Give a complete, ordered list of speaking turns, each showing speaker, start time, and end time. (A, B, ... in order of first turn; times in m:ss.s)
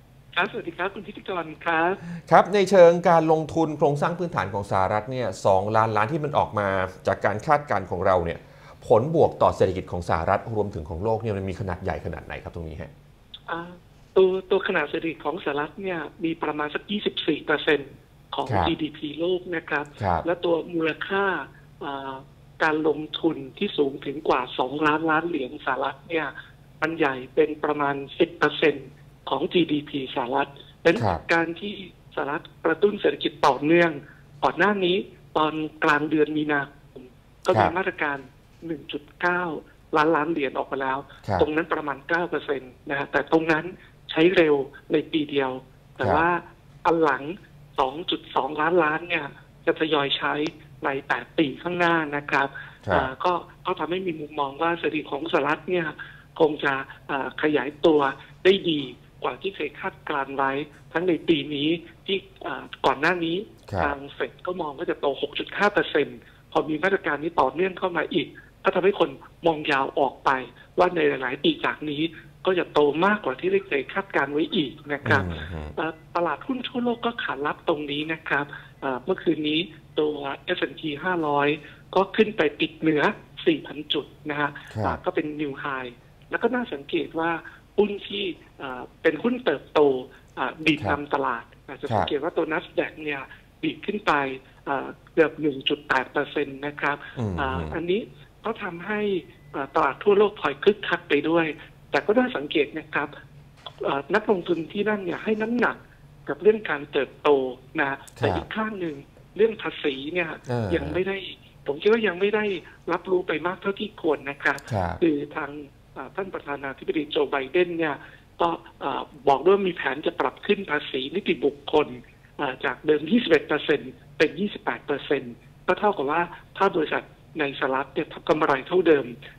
0:00.3-0:02.0 A
0:02.1-0:12.9 B
0:13.5-1:43.1 A
0:18.5-0:18.7 B
0:20.0-0:20.3 B
0:31.0-0:31.2 B
0:52.8-0:53.1 B
1:03.7-1:04.0 B
1:15.0-1:15.8 B
1:24.7-1:25.0 B
1:37.2-1:37.8 B
1:43.8-2:09.1 A
1:48.2-1:48.5 B
1:50.5-1:51.0 B
1:54.7-1:55.0 B